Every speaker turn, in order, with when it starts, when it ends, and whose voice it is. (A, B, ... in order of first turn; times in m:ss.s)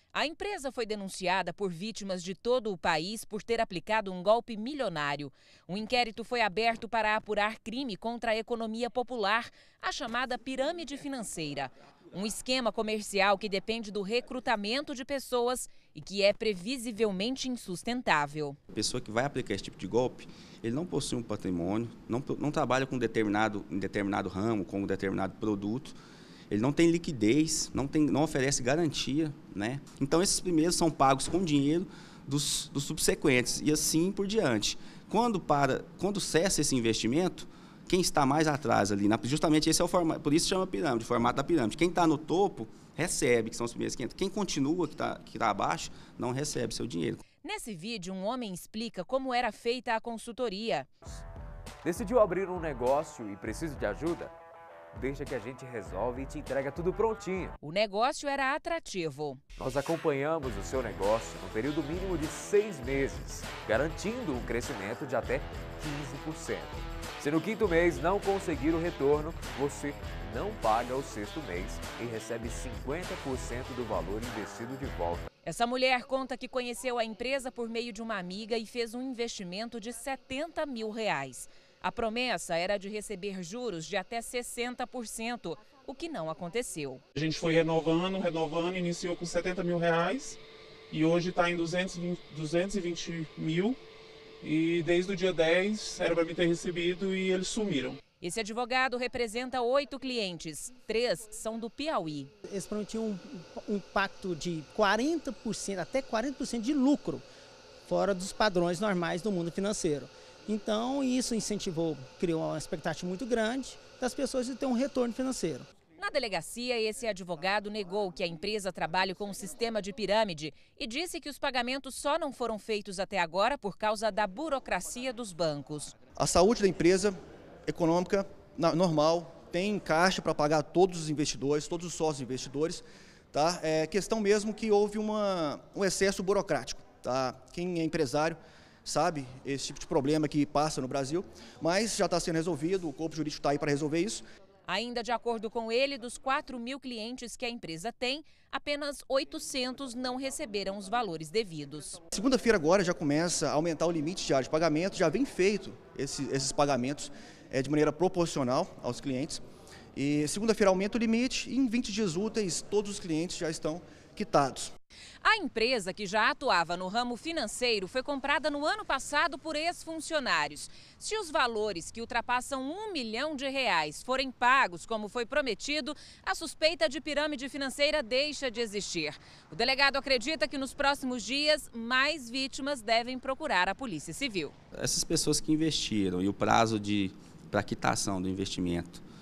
0:00.1-0:18.6 A
0:18.8-0:20.1 B
0:20.6-0:25.8 B
0:26.5-0:37.4 B
0:37.9-0:47.2 B
0:47.4-0:50.9 A
0:51.8-0:54.3 C
0:54.9-0:57.6 C
0:57.6-0:59.4 A
0:59.6-1:15.3 C
1:15.4-1:27.0 A
1:27.2-1:30.4 D
1:30.9-1:33.8 D
1:34.4-1:38.0 D
1:38.2-1:42.3 A
1:42.4-1:47.2 E
1:47.9-1:55.7 E
1:56.0-2:05.9 A
2:06.2-2:07.2 F
2:07.7-2:24.2 F
2:24.7-2:32.0 A
2:32.1-2:39.4 F
2:40.0-2:44.7 F
2:45.2-3:04.5 A
3:04.8-3:07.0 B
3:07.5-3:08.8 B